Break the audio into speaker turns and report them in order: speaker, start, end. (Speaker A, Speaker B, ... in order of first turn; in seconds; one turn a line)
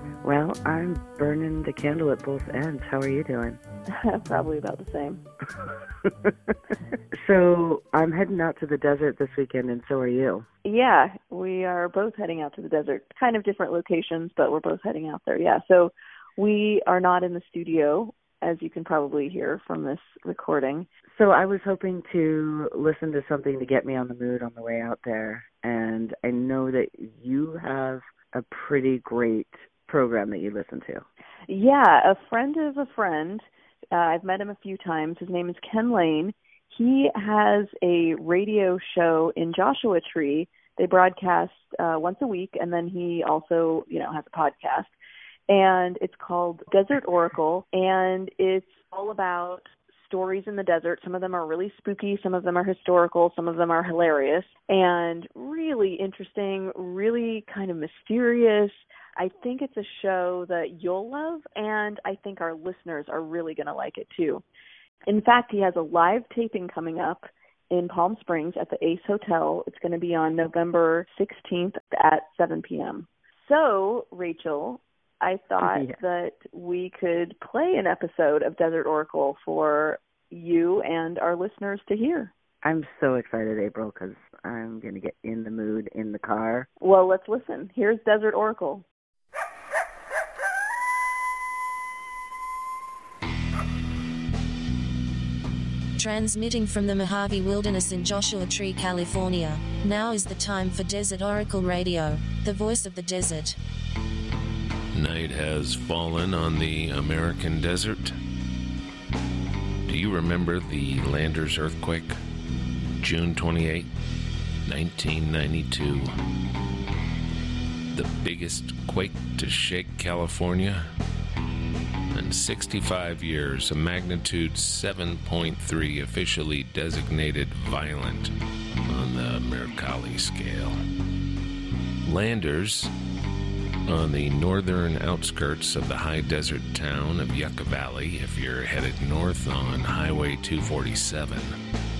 Speaker A: 0.2-3.6
Speaker B: 3.9-5.2
Speaker A: 7.1-10.4
Speaker B: 10.6-20.9
Speaker A: 21.1-31.0
Speaker B: 31.5-44.9
Speaker B: 45.5-64.4
Speaker B: 65.1-82.3
Speaker A: 75.6-76.0
Speaker A: 82.6-86.7
Speaker B: 86.8-88.8
Speaker C: 96.0-103.5
Speaker D: 104.9-108.2
Speaker D: 109.8-112.2
Speaker D: 113.0-113.9
Speaker D: 114.7-116.1
Speaker D: 117.9-120.9
Speaker D: 122.1-128.3
Speaker D: 128.8-130.8
Speaker D: 132.0-132.9
Speaker D: 133.9-141.6